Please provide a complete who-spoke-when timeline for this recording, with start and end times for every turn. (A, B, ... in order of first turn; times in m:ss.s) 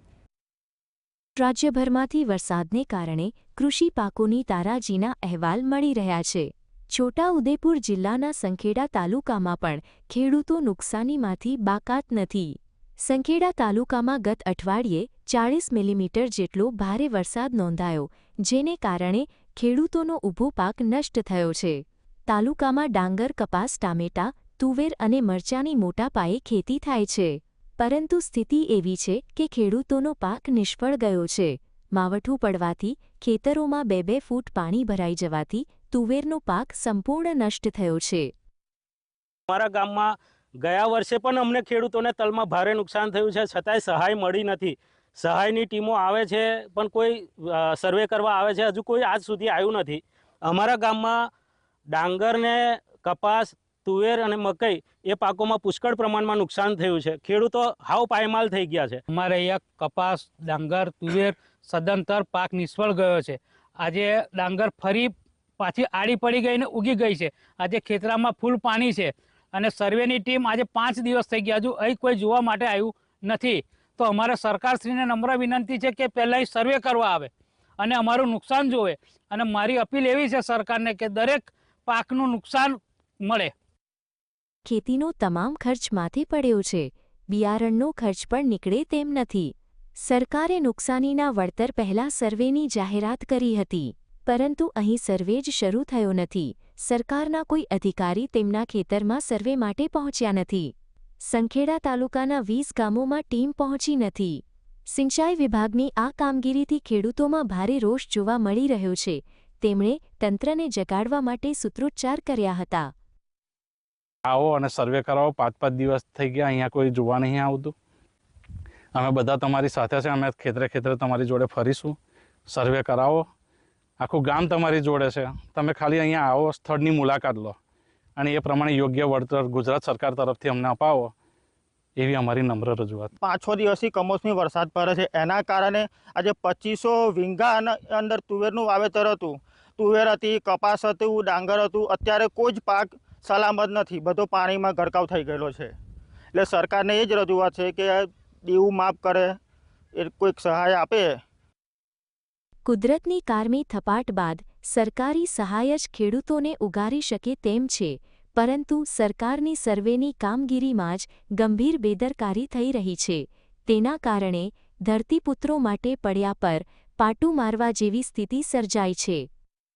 0:01.4-0:38.3 A
0:39.5-0:40.1 B
0:40.6-0:51.2 B
0:51.9-0:59.0 B
0:59.1-1:23.5 C
1:24.6-1:40.7 A
1:41.2-1:52.9 A
1:54.2-1:57.7 D
1:58.9-2:03.3 D
2:04.0-2:07.6 D
2:08.2-2:11.1 D
2:12.0-2:13.1 D
2:13.2-2:25.7 E
2:26.3-2:29.4 E
2:29.9-2:31.2 E
2:32.6-2:49.3 A